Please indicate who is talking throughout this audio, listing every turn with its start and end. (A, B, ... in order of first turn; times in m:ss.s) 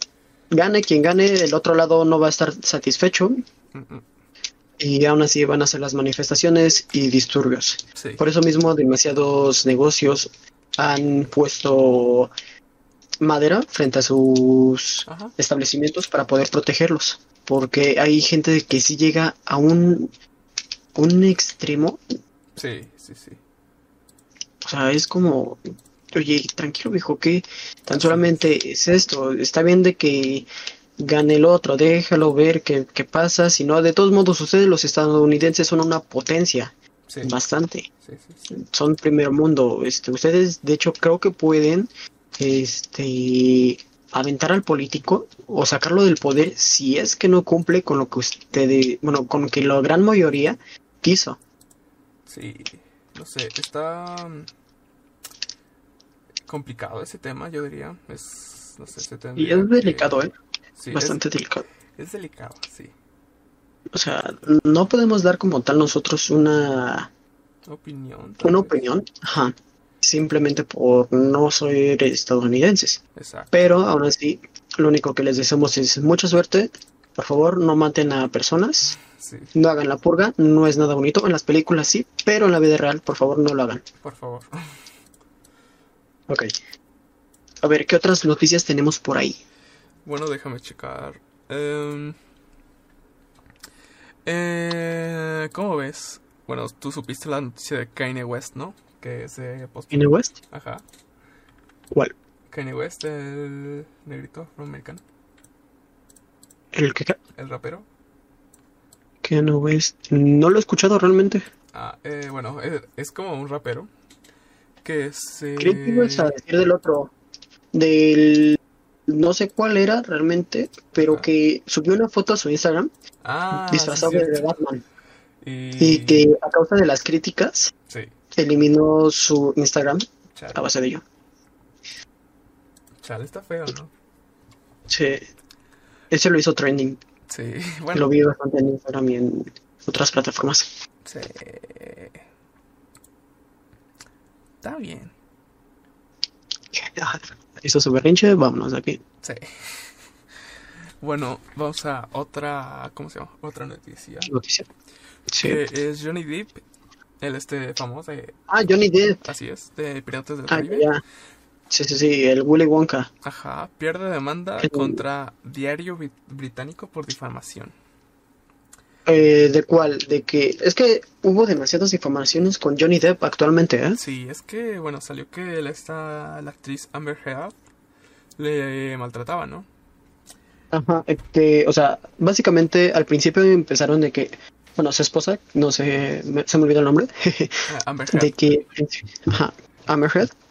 0:00.5-0:03.4 A
0:03.7-0:04.0 B
0:04.8-0:12.3 A
0:08.0-0:08.2 B
0:13.2-0:20.1 A
0:15.1-0:15.3 B
0:21.0-0:22.0 A
0:22.6-0:23.4 B
0:24.6-0:25.6 A
0:26.1-0:30.5 A
0:28.0-0:28.4 B
0:31.0-0:37.9 A
0:37.1-0:37.3 B
0:38.0-0:38.4 B
0:38.5-0:51.4 A
0:52.3-0:54.5 B
0:56.5-1:00.2 B
0:59.4-1:00.3 A
1:00.8-1:01.2 B
1:00.9-1:01.6 A
1:02.0-1:02.9 B
1:03.9-1:07.1 A
1:07.7-1:08.8 B
1:08.4-1:13.0 A
1:13.2-1:13.6 B
1:13.5-1:19.0 A
1:19.0-1:19.5 B
1:19.6-1:23.8 A
1:24.0-1:24.8 B
1:27.6-1:29.4 A
1:30.0-1:32.2 B
1:34.2-1:40.8 B
1:39.9-1:40.4 A
1:42.5-1:45.0 B
1:46.7-1:47.2 A
1:47.4-1:47.9 B
1:49.2-1:51.4 A
1:51.7-1:53.9 B
1:54.8-1:56.4 B
1:55.6-1:57.1 A
1:57.7-2:02.9 A
2:01.0-2:01.3 B
2:03.2-2:04.5 B
2:03.5-2:04.8 A
2:05.4-2:06.3 B
2:05.8-2:07.7 A
2:08.4-2:11.0 A
2:10.3-2:10.6 B
2:13.0-2:13.9 B
2:14.9-2:15.2 A
2:16.1-2:17.0 A
2:17.3-2:18.1 B
2:17.9-2:20.7 A
2:21.0-2:22.2 B
2:24.6-2:25.1 B
2:26.7-2:29.0 A
2:29.2-2:29.9 B
2:31.0-2:34.3 B
2:34.3-2:34.7 A
2:35.3-2:35.6 A
2:35.4-2:36.6 B
2:37.2-2:38.5 B
2:38.5-2:39.2 A
2:39.2-2:41.0 B
2:40.5-2:41.0 A
2:41.7-2:43.1 A
2:43.2-2:47.8 B
2:44.6-2:45.0 A
2:49.1-2:54.0 A
2:54.0-2:57.6 B
2:58.4-2:59.7 B
3:00.7-3:10.3 A
3:07.7-3:08.4 B